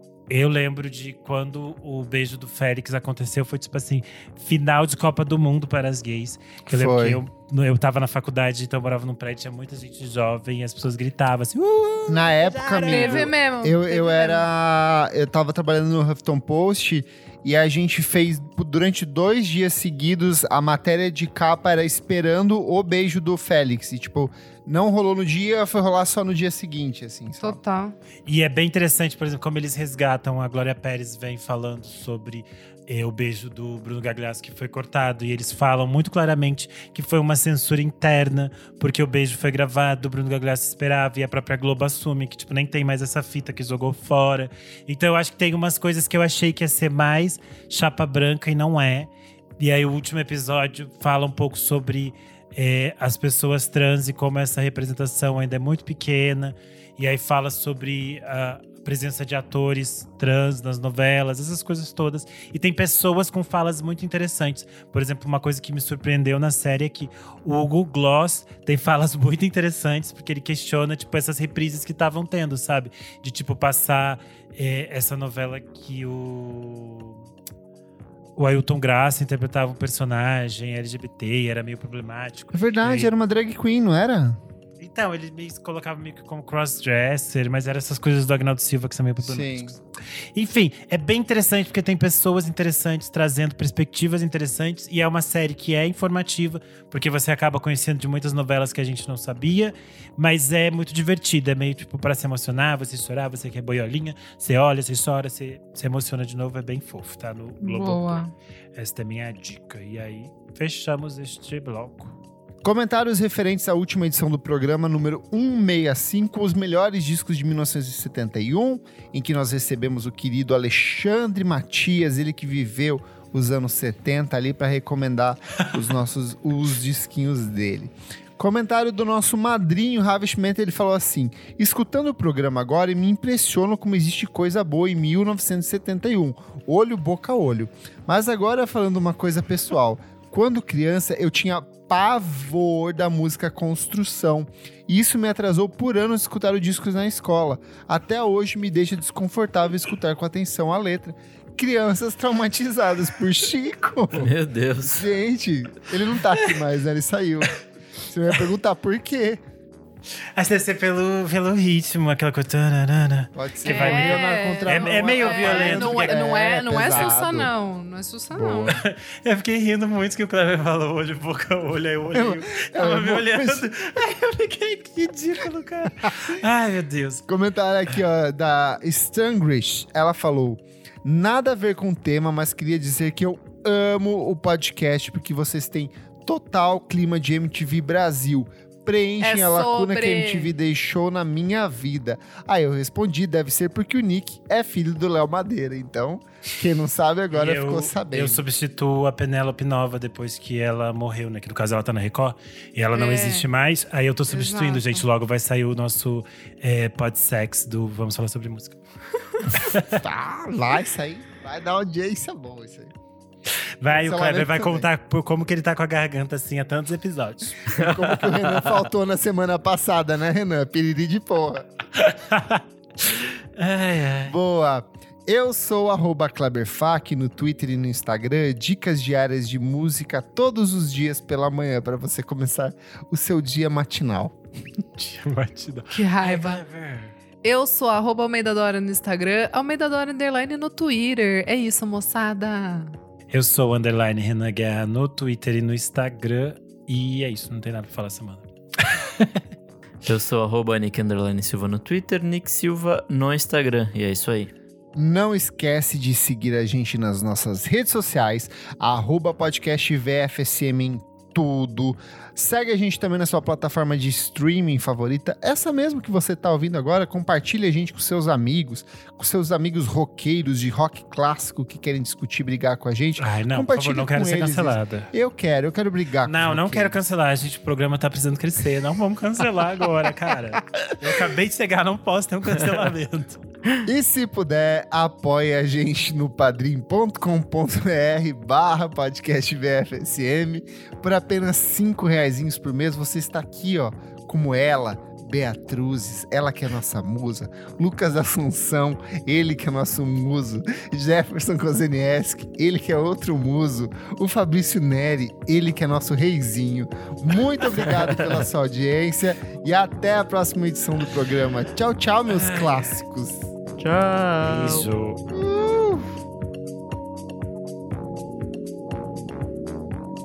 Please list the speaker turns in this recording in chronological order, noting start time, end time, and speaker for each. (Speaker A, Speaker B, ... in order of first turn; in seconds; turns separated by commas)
Speaker A: 0.3-13.3, Speaker B: 6.7-7.2, Speaker B: 12.1-27.6, Speaker C: 12.9-14.5, Speaker C: 27.4-28.0, Speaker A: 28.3-77.2, Speaker A: 78.4-83.1, Speaker B: 82.5-84.4, Speaker A: 84.8-89.8, Speaker B: 89.2-89.8, Speaker A: 90.3-108.2, Speaker C: 107.6-108.3, Speaker A: 108.8-112.2, Speaker B: 112.6-154.3, Speaker D: 154.1-155.2, Speaker B: 154.9-159.4, Speaker A: 160.4-166.3, Speaker B: 163.3-167.5, Speaker C: 163.6-168.7, Speaker B: 168.3-168.8, Speaker A: 168.7-177.2, Speaker B: 172.1-173.6, Speaker B: 177.3-198.4, Speaker C: 189.2-190.5, Speaker A: 197.3-208.8, Speaker C: 202.9-203.5, Speaker C: 204.3-205.0, Speaker A: 209.4-210.0, Speaker B: 209.8-212.9, Speaker A: 213.8-217.8, Speaker B: 213.9-214.9, Speaker B: 217.7-221.7, Speaker A: 222.0-224.3, Speaker B: 224.3-234.4, Speaker A: 235.0-237.1, Speaker C: 235.9-236.6, Speaker C: 237.4-243.0, Speaker A: 243.3-249.4, Speaker D: 250.0-254.5, Speaker B: 254.9-277.0, Speaker A: 273.2-275.1, Speaker A: 276.2-283.4, Speaker B: 283.9-313.5, Speaker D: 307.9-308.4, Speaker A: 312.3-312.9, Speaker D: 313.8-314.9, Speaker A: 314.5-315.2, Speaker B: 315.3-316.1